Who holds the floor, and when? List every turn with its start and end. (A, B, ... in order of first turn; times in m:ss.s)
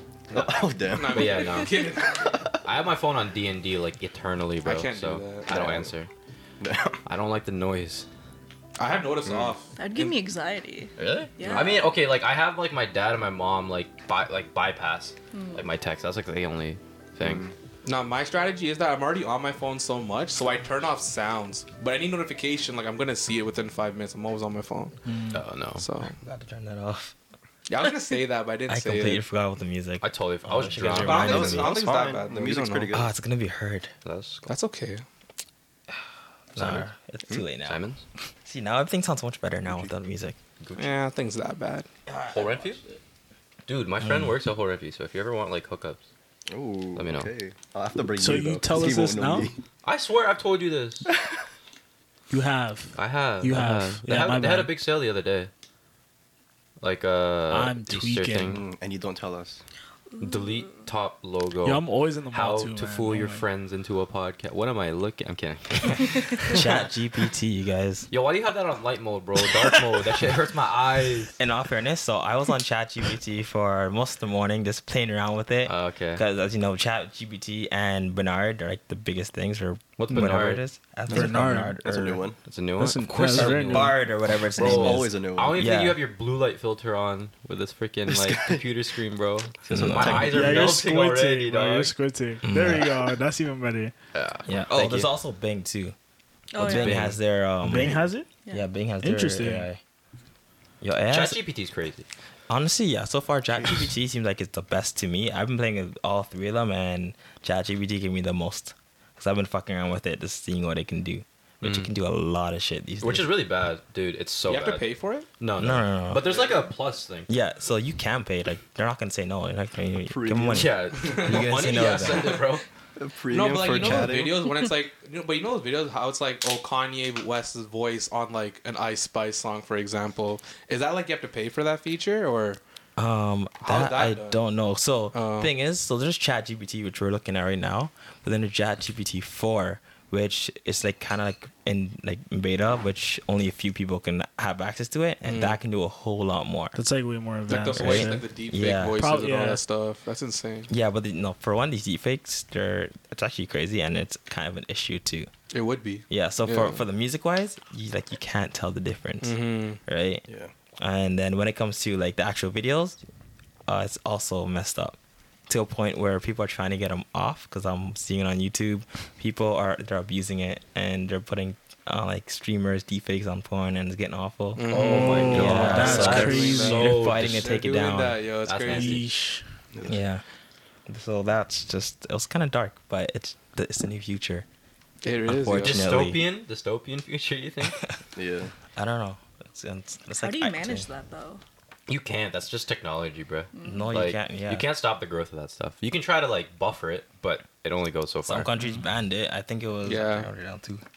0:00.3-0:01.8 A
0:00.3-0:02.5 B
0:00.8-0:02.5 C
0:02.6-0:06.1 A
0:04.6-0:05.6 C
0:05.5-0:05.9 B
0:06.6-0:07.0 B
0:07.0-0:08.1 A
0:08.8-0:10.1 C
0:09.3-0:09.5 B
0:09.8-0:11.9 D
0:11.0-0:17.5 A
0:11.4-0:11.7 B
0:15.3-0:15.7 D
0:17.2-0:17.5 B
0:17.8-0:24.9 C
0:25.1-0:25.4 E
0:25.3-0:25.8 A
0:25.8-0:26.2 C
0:26.2-0:27.1 F
0:27.7-0:29.2 C
0:28.7-0:31.6 F
0:30.0-0:31.8 A
0:31.0-0:33.0 C
0:31.0-0:33.1 B
0:32.9-0:33.9 F
0:34.0-0:34.5 A
0:34.5-0:35.0 C
0:36.5-0:37.8 F
0:36.6-0:36.9 B
0:37.3-0:38.0 A
0:38.4-0:40.4 F
0:40.6-0:40.9 A
0:40.8-0:41.9 C
0:42.1-0:43.0 F
0:42.3-0:42.8 A
0:43.7-0:46.0 A
0:44.0-0:44.3 F
0:46.5-0:49.6 B
0:47.0-0:47.3 A
0:48.2-0:49.5 E
0:49.8-0:51.1 A
0:52.3-0:54.8 E
0:53.0-0:55.5 A
0:54.0-0:54.4 F
0:56.8-0:58.6 A
0:57.5-0:58.6 E
0:58.5-0:59.6 B
1:00.1-1:00.8 D
1:00.2-1:06.1 A
1:01.6-1:03.5 E
1:06.5-1:08.1 F
1:08.1-1:11.4 A
1:11.4-1:22.3 F
1:15.7-1:16.2 A
1:20.0-1:20.6 A
1:21.1-1:21.8 E
1:21.8-1:22.4 B
1:22.4-1:24.0 A
1:22.8-1:24.0 E
1:23.3-1:26.0 F
1:24.6-1:25.6 B
1:24.6-1:32.0 A
1:28.1-1:28.6 B
1:29.6-1:30.7 B
1:29.7-1:30.4 F
1:30.1-1:33.9 E
1:32.4-1:33.2 F
1:34.1-1:34.5 A
1:34.5-1:36.0 F
1:34.7-1:35.1 B
1:36.5-1:37.2 D
1:36.6-1:39.8 F
1:36.6-1:37.2 A
1:37.6-1:38.3 E
1:39.0-1:39.7 E
1:40.8-1:41.4 F
1:41.1-1:42.1 A
1:42.5-1:53.4 F
1:51.6-1:51.9 A
1:53.0-1:57.3 A
1:54.5-1:55.3 C
1:55.6-1:56.3 F
1:56.2-1:56.7 C
1:57.3-2:02.4 F
2:00.0-2:00.8 B
2:00.5-2:02.6 A
2:01.0-2:01.6 C
2:03.0-2:04.5 B
2:03.3-2:12.6 C
2:03.8-2:04.1 F
2:13.0-2:26.8 F
2:13.6-2:14.4 C
2:15.1-2:15.5 C
2:25.2-2:25.6 C
2:26.8-2:28.3 E
2:27.5-2:30.7 C
2:27.6-2:29.2 F
2:29.0-2:29.6 E
2:30.7-2:35.3 F
2:35.5-2:36.8 C
2:36.1-2:40.3 F
2:39.2-2:39.8 C
2:40.3-2:40.5 B
2:40.8-2:43.0 F
2:43.7-2:45.0 F
2:45.5-2:54.6 F
2:54.6-2:59.1 C
2:54.7-2:57.5 A
2:54.8-2:57.0 E
2:55.3-2:58.2 F
2:58.4-2:59.0 A
2:58.7-2:59.4 E
2:59.7-3:00.0 B
2:59.9-3:00.2 F
3:00.9-3:04.5 F
3:05.0-3:05.9 C
3:05.3-3:06.3 F
3:05.6-3:07.8 A
3:08.2-3:08.5 B
3:08.8-3:10.9 F
3:10.2-3:11.4 D
3:11.9-3:18.5 A
3:13.5-3:13.9 D
3:13.6-3:14.7 F
3:18.3-3:20.8 F
3:19.8-3:20.3 C